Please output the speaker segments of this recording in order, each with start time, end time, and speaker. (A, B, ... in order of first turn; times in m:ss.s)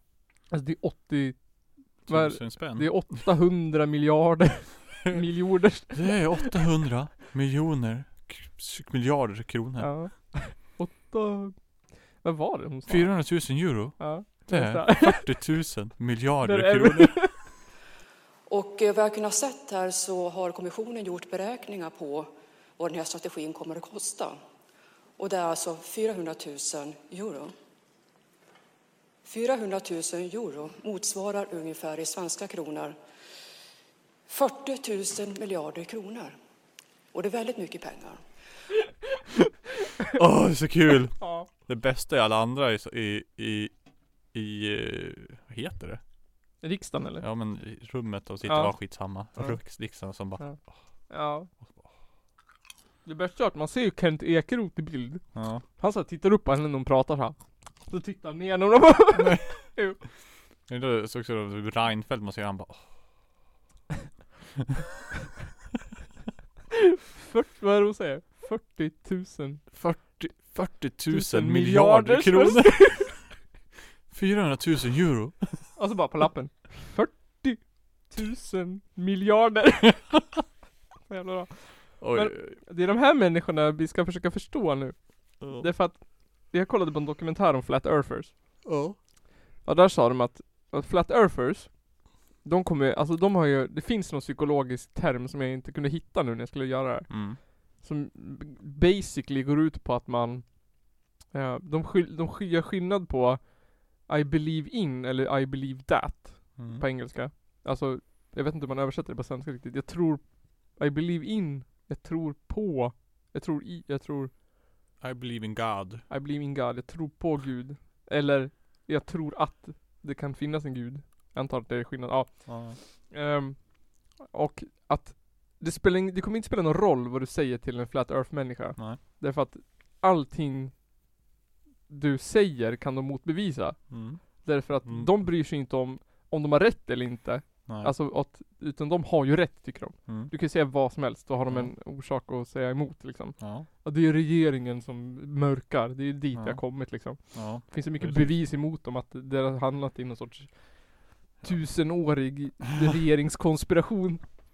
0:00.5-0:06.5 A
0:02.1-0:03.2 B
0:05.9-0:09.9 B
0:09.8-0:11.6 A
0:12.2-0:15.5 A
0:12.9-0:17.4 B
0:16.4-0:17.4 A
0:18.5-0:24.4 C
0:25.2-0:27.5 C
0:29.2-0:33.0 C
0:34.3-0:36.4 C
0:37.1-0:38.2 C
0:40.1-0:43.7 B
0:41.2-0:41.5 A
0:44.3-0:46.0 B
0:46.6-0:47.2 A
0:47.2-0:50.6 B
0:48.5-0:48.8 A
0:51.1-0:51.5 A
0:53.0-0:55.2 A
0:55.4-0:55.6 B
0:55.8-1:00.0 A
0:59.2-0:59.7 B
1:00.7-1:02.8 B
1:07.1-1:09.6 A
1:09.7-1:13.2 B
1:11.1-1:13.1 A
1:14.1-1:15.7 B
1:15.8-1:20.1 A
1:21.1-1:28.3 A
1:22.0-1:22.6 B
1:25.4-1:25.7 B
1:28.6-1:29.0 B
1:29.6-1:31.8 A
1:32.4-1:40.6 A
1:37.1-1:37.4 B
1:41.3-1:54.3 A
1:46.6-1:46.8 B
1:55.0-1:56.0 B
1:56.1-2:10.7 A
2:02.5-2:02.8 B
2:11.9-2:34.2 A
2:13.9-2:14.2 B
2:14.8-2:15.1 B
2:17.7-2:17.9 B
2:20.1-2:20.3 B
2:23.4-2:23.7 B
2:26.4-2:28.3 B